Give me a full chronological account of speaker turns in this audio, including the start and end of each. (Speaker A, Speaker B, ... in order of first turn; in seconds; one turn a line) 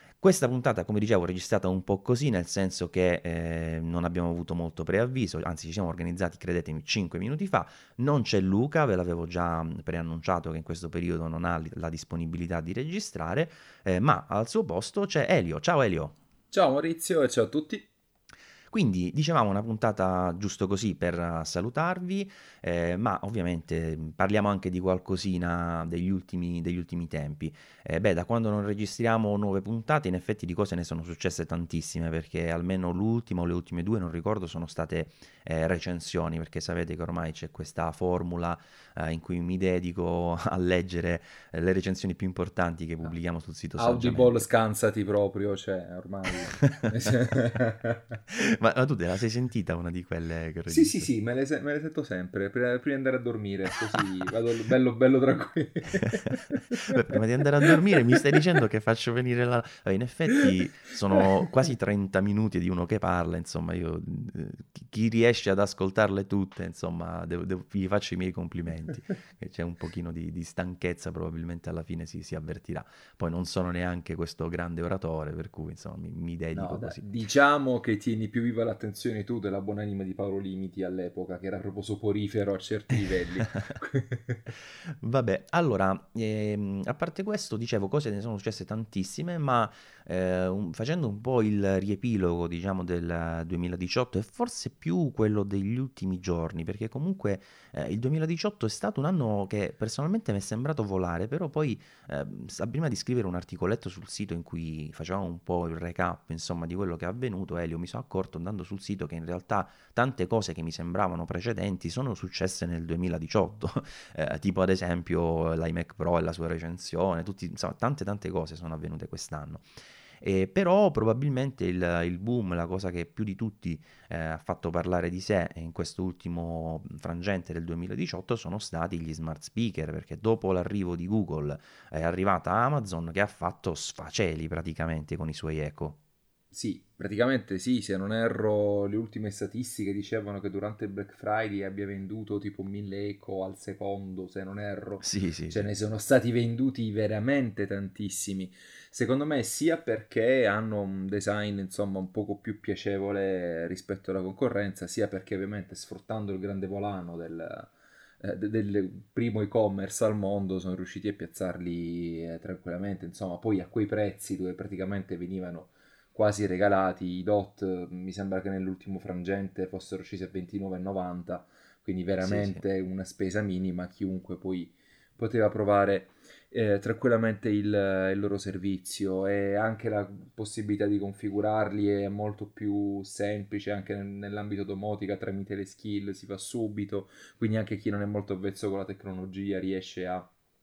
Speaker A: 0.2-16.2
Speaker B: 16.5-17.9
Speaker A: 18.7-44.4
Speaker B: 43.8-48.2
Speaker A: 46.5-47.1
Speaker A: 48.3-51.1
Speaker B: 50.7-58.0
Speaker A: 56.7-77.0
Speaker B: 76.5-84.5
Speaker A: 84.8-119.7
Speaker A: 120.2-136.0
Speaker B: 136.5-190.3
Speaker A: 145.0-145.7
Speaker A: 172.2-172.6